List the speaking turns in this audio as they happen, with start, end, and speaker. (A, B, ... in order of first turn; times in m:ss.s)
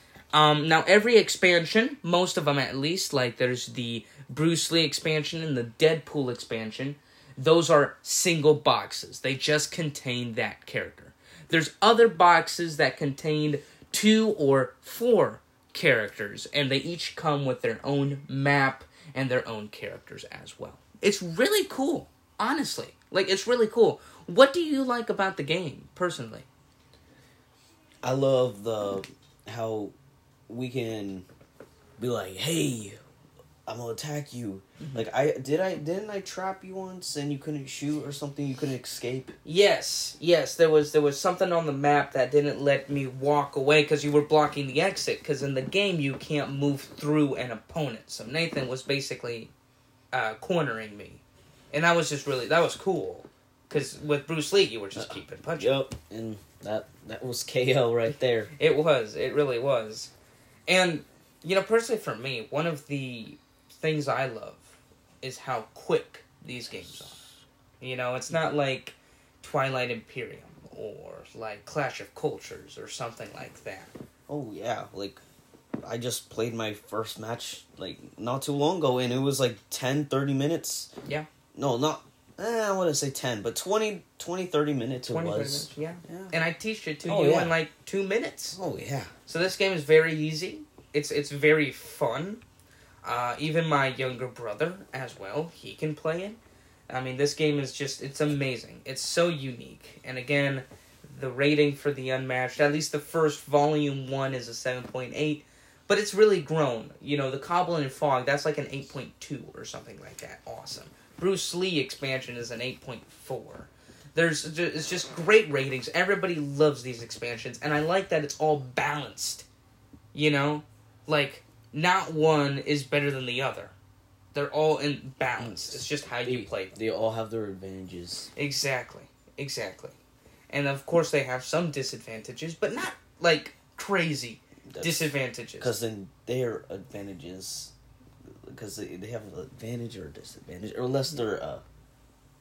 0:00.3-0:26.5 A
0:28.0-0:30.0 B
0:30.5-0:31.3 B
0:32.0-0:33.0 B
0:33.7-0:39.4 B
0:39.4-0:49.5 A
0:50.1-0:55.8 A
0:55.0-0:58.5 B
0:58.6-1:00.1 A
1:00.7-1:07.2 A
1:07.8-1:13.9 A
1:14.3-1:15.2 B
1:15.8-1:20.9 B
1:21.6-1:26.4 B
1:25.1-1:28.6 A
1:27.0-1:27.6 B
1:28.5-1:29.1 B
1:29.3-1:32.4 A
1:33.0-1:59.5 A
2:00.1-2:03.7 A
2:04.3-2:06.8 A
2:05.4-2:08.3 B
2:08.4-2:10.0 A
2:10.5-2:15.7 A
2:14.7-2:17.7 B
2:18.4-2:21.6 B